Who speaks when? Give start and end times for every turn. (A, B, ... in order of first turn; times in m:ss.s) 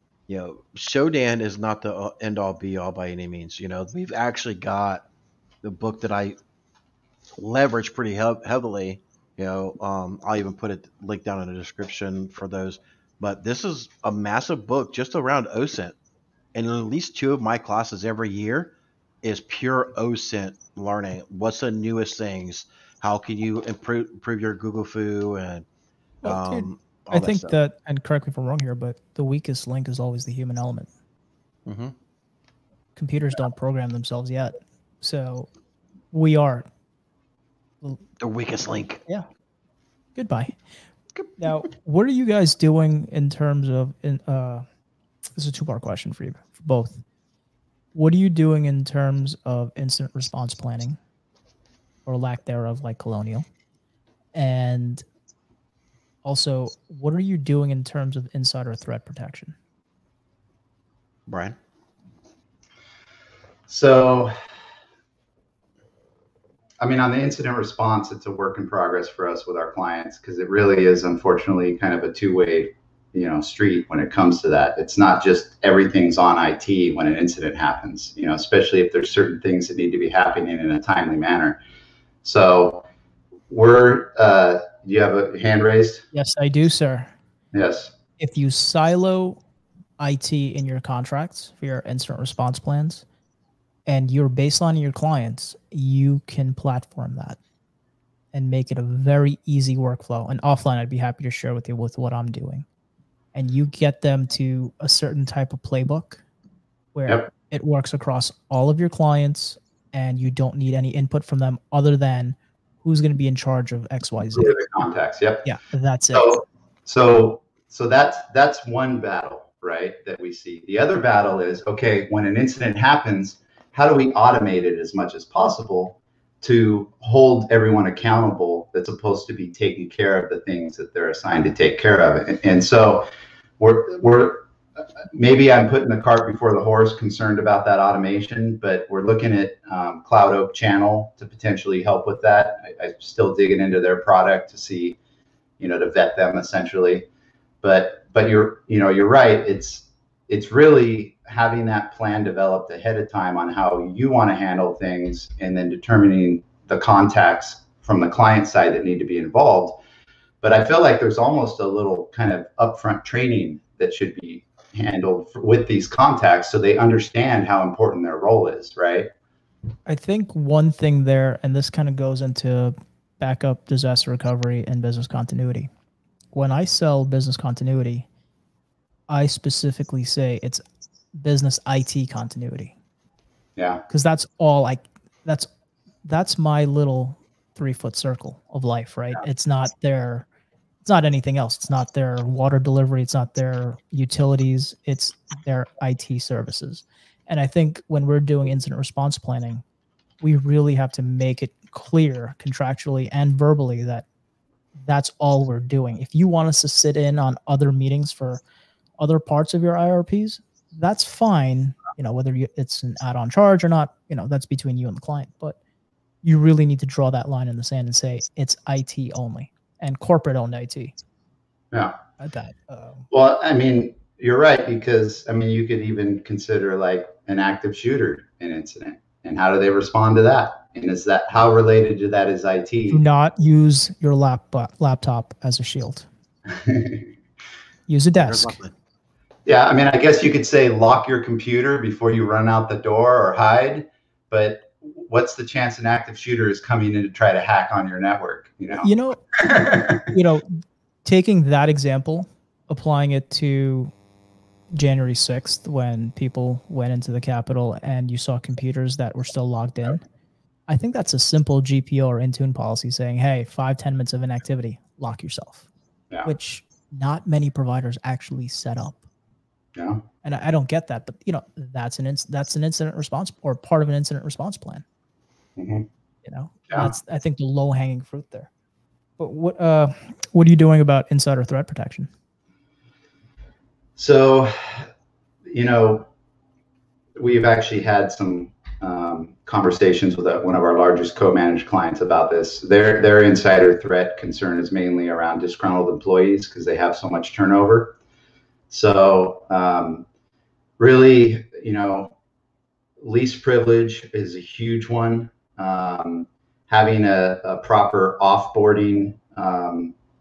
0:00.3-0:05.0 A
0:05.6-0:06.4 A
0:07.4-0:15.9 A
0:16.5-0:18.7 A
0:19.2-0:25.6 A
0:26.2-0:27.5 A
0:26.2-0:30.9 B
0:31.6-0:31.9 A
0:33.0-0:35.5 B
0:36.1-0:36.6 B
0:38.2-0:39.0 A
0:40.2-0:40.6 B
0:41.2-0:41.4 A
0:41.4-0:44.6 B
0:45.4-0:47.0 B
0:47.9-0:51.0 B
0:52.0-0:53.4 B
0:54.3-0:55.0 B
0:56.2-0:59.6 B
1:01.3-1:01.6 A
1:03.7-1:04.3 C
1:06.8-1:21.6 C
1:22.2-1:22.8 C
1:23.5-1:26.0 C
1:26.1-1:27.1 B
1:27.5-1:27.9 C
1:28.2-1:29.4 B
1:30.0-1:33.0 B
1:33.9-1:37.4 B
1:38.3-1:42.6 B
1:43.3-1:46.2 B
1:46.9-1:54.5 B
1:54.3-1:55.4 C
1:55.4-1:56.4 B
1:56.1-2:13.0 C
2:13.6-2:14.4 C
2:15.1-2:25.0 C
2:25.6-2:27.0 C
2:27.6-2:39.8 C
2:40.4-2:49.1 C
2:49.9-2:55.7 B
2:56.3-2:58.0 B
2:59.1-3:00.6 B
3:01.2-3:02.7 B
3:03.6-3:03.8 C
3:03.9-3:05.5 B
3:06.0-3:10.2 B
3:10.8-3:19.6 B
3:20.2-3:24.0 B
3:24.8-3:28.4 B
3:29.0-3:35.6 B
3:36.2-3:40.9 B
3:42.2-3:43.0 B
3:43.1-3:53.0 C
3:52.9-3:56.1 B
3:56.5-3:57.1 C
3:57.9-3:58.6 B
3:58.2-3:58.7 A
3:59.4-4:10.1 C
4:08.7-4:09.4 B
4:10.1-4:13.9 B
4:14.7-4:20.0 B
4:20.7-4:25.7 B
4:26.2-4:29.0 B
4:29.7-4:30.0 C
4:30.2-4:34.8 B
4:35.6-4:35.8 C
4:36.2-4:38.5 B
4:39.2-4:42.1 B
4:44.0-4:44.8 C
4:45.5-4:46.1 C
4:47.2-4:58.0 C
4:58.7-5:00.0 C
5:00.8-5:02.1 C
5:03.0-5:09.9 C